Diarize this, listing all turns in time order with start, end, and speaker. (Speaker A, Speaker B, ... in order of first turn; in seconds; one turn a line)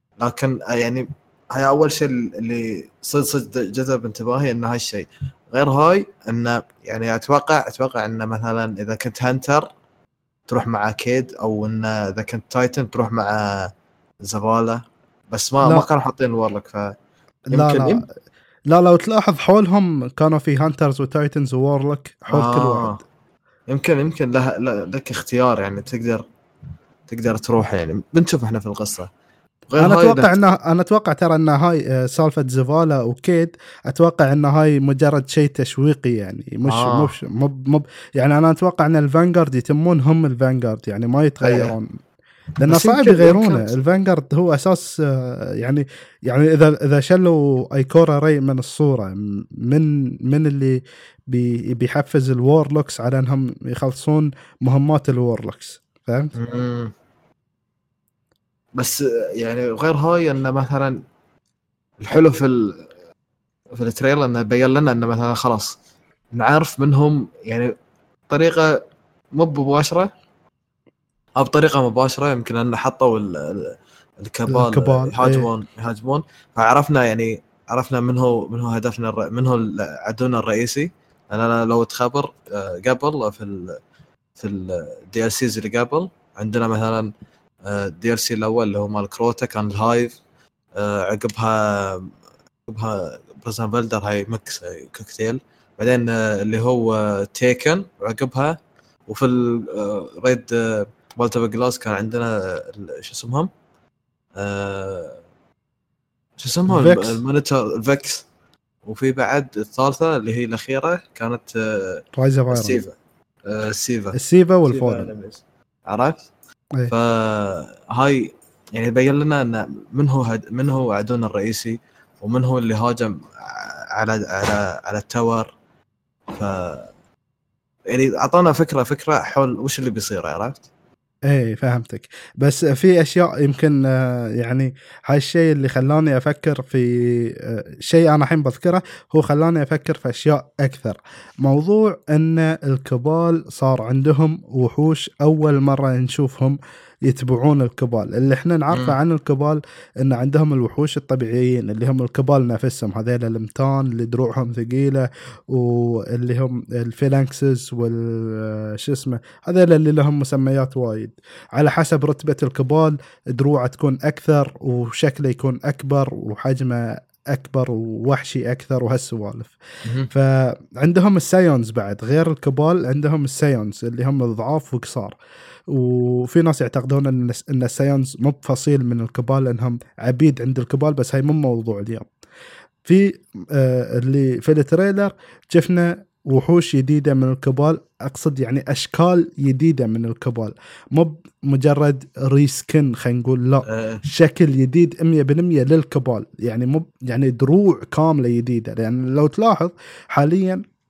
Speaker A: 0.2-9.7
Speaker A: 10.5-13.7
Speaker A: 14.2-16.9
Speaker B: 17.5-18.0
Speaker A: 17.5-18.0
Speaker B: 18.7-23.0
Speaker A: 22.3-23.0
Speaker A: 23.7-26.2
Speaker A: 27.1-29.1
Speaker A: 29.7-30.4
Speaker B: 29.8-41.9
Speaker A: 36.6-37.1
Speaker A: 41.4-41.7
Speaker B: 42.6-56.4
Speaker A: 42.6-43.7
Speaker A: 56.4-56.9
Speaker A: 58.8-61.0
Speaker A: 62.0-62.9
Speaker A: 63.7-65.8
Speaker A: 66.3-67.7
Speaker A: 68.3-68.7
Speaker A: 69.3-70.1
Speaker A: 71.4-83.8
Speaker B: 74.5-75.5
Speaker A: 84.4-87.1
Speaker A: 87.7-90.2
Speaker A: 90.8-92.1
Speaker A: 92.7-103.5
Speaker A: 104.4-105.2
Speaker A: 106.4-108.3
Speaker B: 106.7-107.2
Speaker A: 108.8-113.0
Speaker B: 112.2-112.8
Speaker A: 113.5-116.3
Speaker B: 114.1-115.1
Speaker A: 116.9-125.5
Speaker A: 126.3-126.9
Speaker A: 127.9-130.7
Speaker B: 131.3-169.6
Speaker A: 148.7-149.0
Speaker A: 169.8-170.1
Speaker B: 170.1-175.2
Speaker B: 175.7-182.1
Speaker B: 182.8-200.6
Speaker A: 193.7-194.0